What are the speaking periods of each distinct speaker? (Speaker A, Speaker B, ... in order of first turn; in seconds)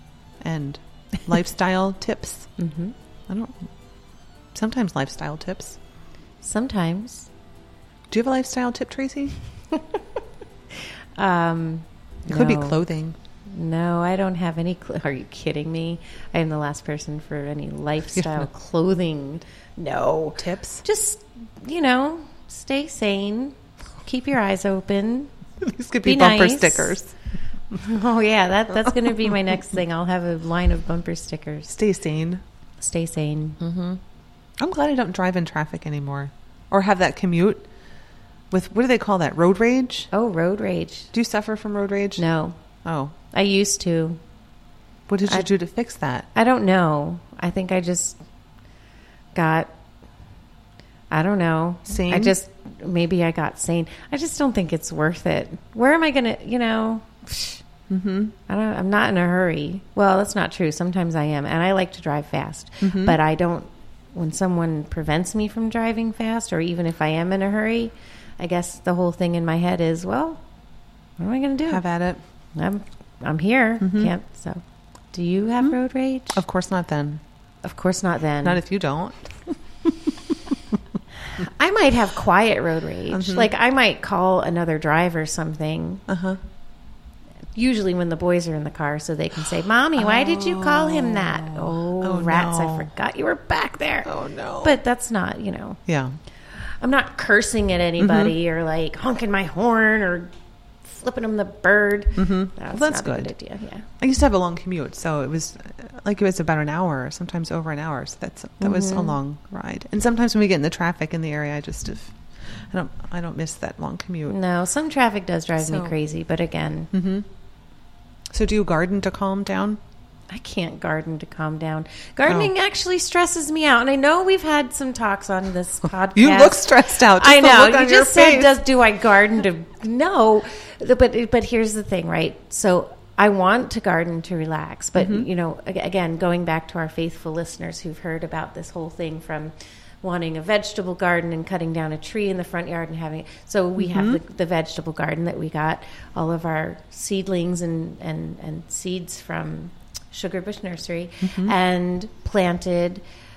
Speaker A: 0.4-2.5, 3.3-3.7, 4.5-5.8, 8.1-9.3, 12.3-13.2, 18.2-18.4, 20.4-20.8, 25.6-27.1, 31.7-32.4, 34.6-37.7, 38.5-40.1, 41.1-42.2, 42.8-43.1, 45.1-46.3, 51.9-52.3, 57.9-58.3, 62.8-63.2, 71.7-72.2, 73.8-74.1, 76.3-77.2, 78.4-80.1, 83.1-83.5, 86.1-86.4, 90.0-92.9, 94.0-94.8, 95.9-96.2, 98.0-98.3, 102.2-103.3, 104.0-114.4, 115.6-115.9, 116.9-117.2, 118.3-119.8, 126.1-128.5, 135.0-135.3, 143.8-144.2, 151.2-151.5
Speaker B: 2.6-2.9, 6.4-7.3, 9.7-10.0, 11.1-12.8, 13.5-25.3, 26.0-27.0, 27.7-31.7, 32.8-34.0, 40.1-41.1, 42.2-42.6, 43.3-44.2, 46.3-48.2, 49.3-49.7, 51.1-57.6, 58.5-70.4, 71.2-71.8, 72.5-76.4, 77.6-78.6, 81.4-86.0, 87.5-95.8, 96.6-100.3, 100.8-103.8, 108.6-109.2, 114.3-116.9, 120.3-153.0